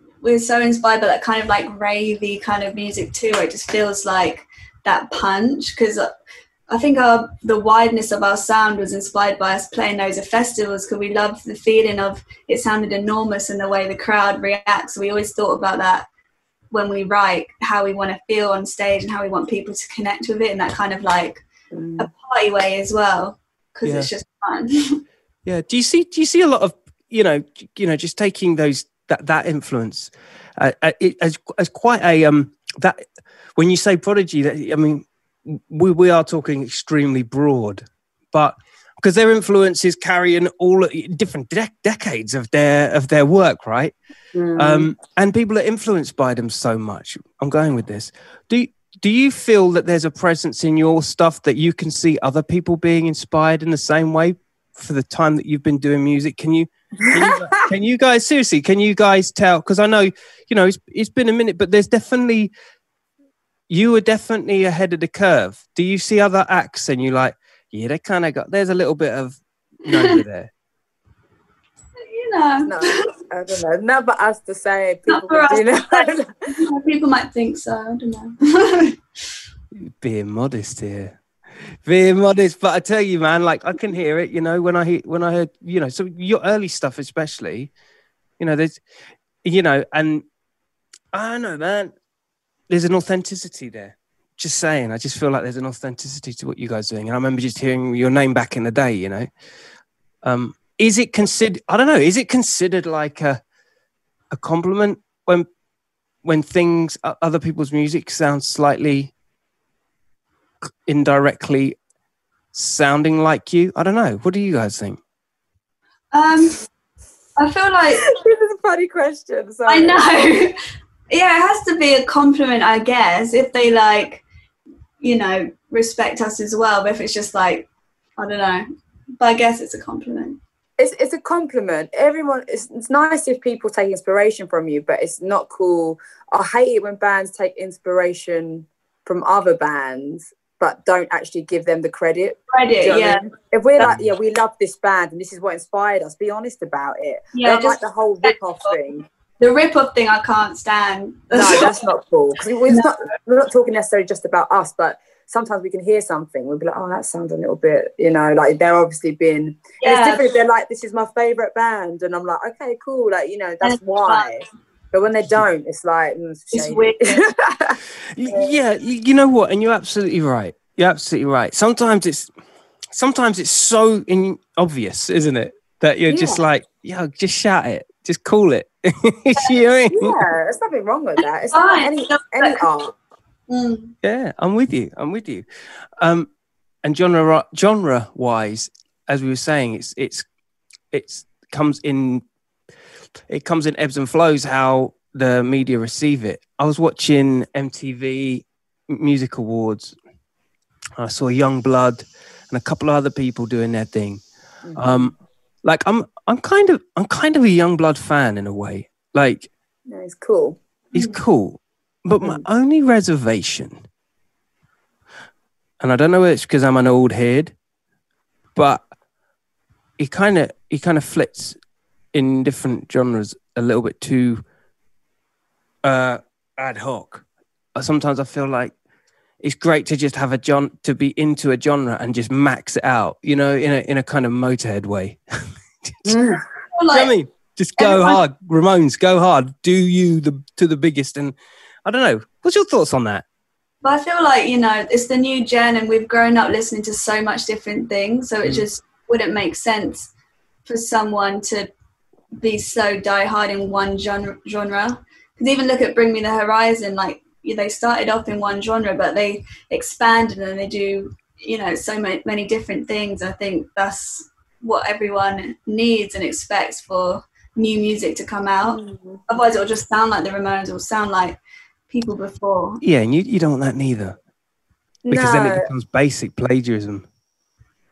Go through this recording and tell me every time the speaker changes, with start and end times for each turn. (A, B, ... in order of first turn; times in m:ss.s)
0:00.2-0:06.1 A
0:06.7-0:16.1 A
0:16.7-0:21.4 A
0:21.7-0:22.1 B
0:22.0-0:25.0 A
0:23.8-0:24.1 C
0:25.4-0:33.0 C
0:33.6-0:43.9 C
0:44.3-0:44.9 B
0:44.6-1:02.5 C
0:57.0-0:57.6 B
1:03.7-1:10.5 C
1:12.0-1:13.1 A
1:12.6-1:16.3 B
1:15.1-1:19.0 A
1:19.7-1:21.2 C
1:21.8-1:27.7 C
1:28.4-1:28.8 C
1:29.4-1:30.2 C
1:31.1-1:31.9 C
1:32.7-1:39.3 C
1:40.2-1:43.4 C
1:44.3-1:45.5 C
1:46.2-1:49.1 C
1:50.8-1:51.8 C
1:52.5-1:55.0 C
1:56.1-1:56.6 A
1:57.4-1:58.1 A
1:58.0-2:00.0 B
1:59.6-2:00.5 A
2:01.1-2:04.2 A
2:05.0-2:08.6 A
2:09.2-2:10.4 A
2:10.8-2:29.0 B
2:22.5-2:23.9 A
2:27.3-2:28.7 A
2:29.4-2:31.7 A
2:31.3-2:47.8 B
2:39.8-2:40.3 A
2:43.6-2:44.4 A
2:46.5-2:47.2 A
2:48.1-2:52.3 C
2:52.9-3:00.2 C
2:56.1-2:56.4 B
2:59.9-3:02.9 B
3:01.5-3:02.6 A
3:03.5-3:03.9 A
3:04.0-3:05.4 C
3:06.0-3:06.3 C
3:06.8-3:10.2 C
3:10.9-3:12.2 C
3:13.3-3:20.0 C
3:21.0-3:24.2 C
3:24.6-3:25.1 B
3:24.7-3:29.5 C
3:29.9-3:30.6 B
3:30.9-3:33.8 C
3:30.9-3:31.2 A
3:35.8-3:37.5 C
3:38.5-3:38.8 C
3:40.0-3:41.6 C
3:42.1-3:44.4 C
3:45.8-3:47.2 C
3:47.8-3:48.7 C
3:49.4-3:55.2 C
3:56.0-3:56.4 B
3:56.7-3:57.1 A
3:56.9-4:03.2 C
3:57.8-3:58.2 B
4:03.8-4:10.1 A
4:10.6-4:11.7 A
4:12.4-4:32.8 A
4:28.7-4:29.2 B
4:32.8-4:34.2 C
4:35.0-4:35.7 B
4:35.1-4:37.0 C